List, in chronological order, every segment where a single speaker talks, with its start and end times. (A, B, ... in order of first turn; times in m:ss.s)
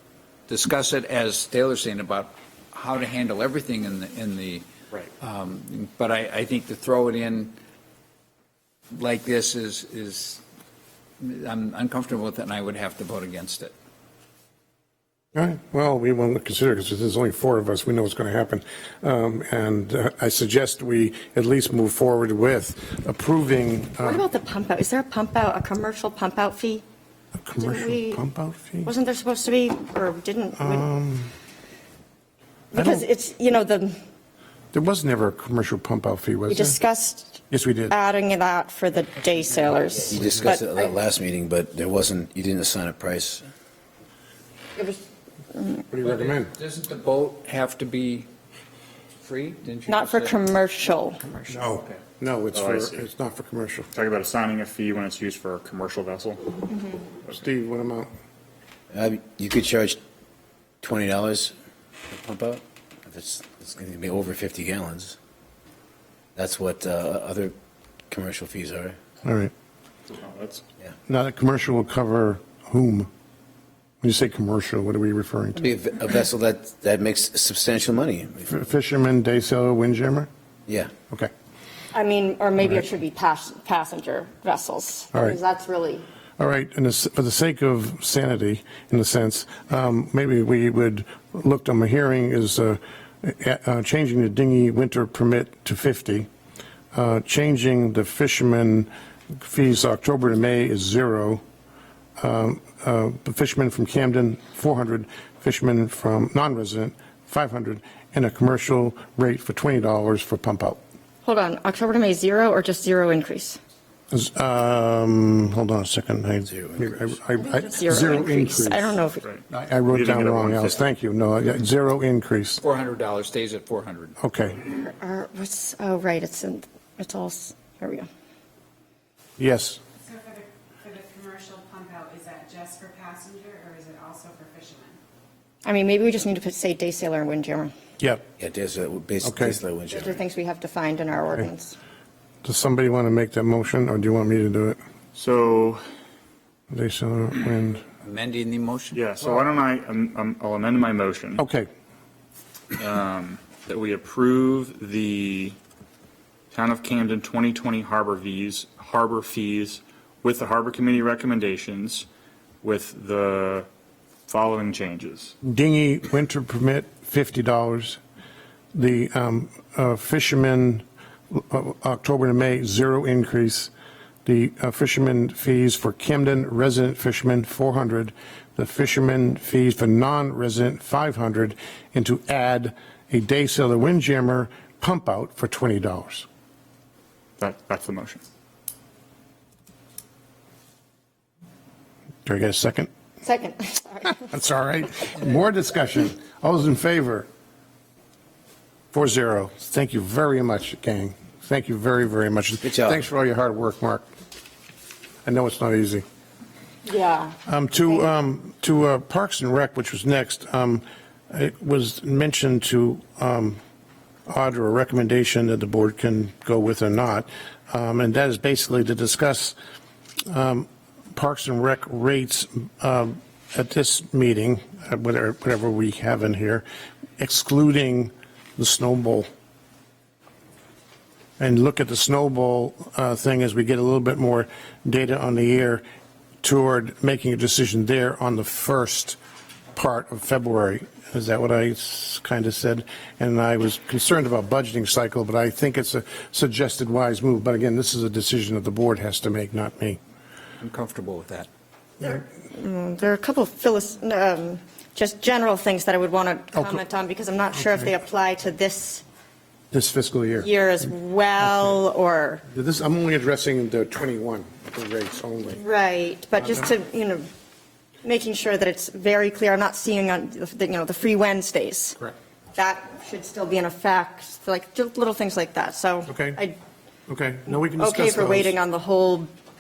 0:00.5-0:04.7 A
0:05.2-0:07.6 A
0:08.9-0:10.4 A
0:11.2-0:13.7 A
0:15.3-0:24.2 B
0:24.0-0:26.8 C
0:27.4-0:28.9 B
0:27.6-0:28.2 C
0:28.8-0:30.9 C
0:30.6-0:31.3 B
0:32.7-0:34.0 C
0:32.8-0:33.0 B
0:34.7-0:36.8 B
0:36.5-0:40.9 C
0:37.5-0:38.0 B
0:40.1-0:43.5 D
0:44.8-0:45.0 C
0:45.5-0:45.8 C
0:45.9-0:46.5 B
0:46.0-0:48.3 A
0:49.2-0:50.4 A
0:49.9-0:51.4 C
0:51.5-0:53.9 B
0:52.5-0:53.0 E
0:53.9-0:56.6 E
0:56.7-0:57.1 C
0:57.3-0:58.1 B
0:58.9-1:00.0 D
1:00.8-1:01.6 D
1:02.1-1:05.2 D
1:06.4-1:07.6 D
1:08.1-1:09.0 D
1:09.2-1:09.5 B
1:10.1-1:10.6 E
1:11.1-1:13.1 B
1:14.0-1:15.7 B
1:15.6-1:18.5 D
1:18.5-1:20.3 B
1:20.7-1:20.9 D
1:21.9-1:26.1 C
1:25.1-1:25.4 B
1:26.4-1:36.3 B
1:36.9-1:41.4 B
1:42.2-1:50.8 B
1:51.2-1:53.6 C
1:54.1-2:02.6 B
1:56.5-1:57.0 D
1:57.4-1:59.3 C
1:59.2-2:00.8 E
2:02.6-2:04.2 A
2:04.2-2:04.6 B
2:04.6-2:08.1 C
2:09.4-2:09.8 B
2:10.1-2:15.0 F
2:15.6-2:17.7 C
2:18.0-2:18.3 B
2:18.4-2:20.2 D
2:19.2-2:19.6 B
2:19.9-2:21.8 C
2:22.4-2:24.8 B
2:25.2-2:25.8 E
2:26.7-2:27.8 B
2:28.0-2:29.0 A
2:28.9-2:31.4 E
2:31.4-2:31.7 B
2:32.8-2:35.6 E
2:36.5-2:42.1 E
2:42.6-2:43.7 E
2:44.3-2:45.3 E
2:45.4-2:48.0 B
2:48.7-2:53.7 B
2:54.2-3:06.3 B
3:07.4-3:08.2 E
3:12.2-3:12.9 B
3:13.2-3:14.2 C
3:14.2-3:17.3 B
3:18.9-3:24.0 B
3:22.6-3:23.0 D
3:25.2-3:26.0 B
3:26.9-3:27.4 C
3:27.5-3:33.6 B
3:34.3-3:39.6 B
3:40.3-3:46.6 B
3:47.2-3:49.3 B
3:51.4-3:55.8 B
3:56.4-3:59.2 B
3:59.7-4:10.0 B
4:10.6-4:11.5 A
4:12.0-4:19.0 C
4:16.6-4:16.8 B
4:17.5-4:17.9 B
4:19.7-4:20.5 B
4:20.4-4:22.4 C
4:22.5-4:25.6 B
4:25.6-4:27.3 C
4:26.4-4:26.7 B
4:28.0-4:32.0 C
4:32.5-4:36.6 C
4:36.1-4:36.4 B
4:37.1-4:38.6 B
4:37.8-4:39.3 C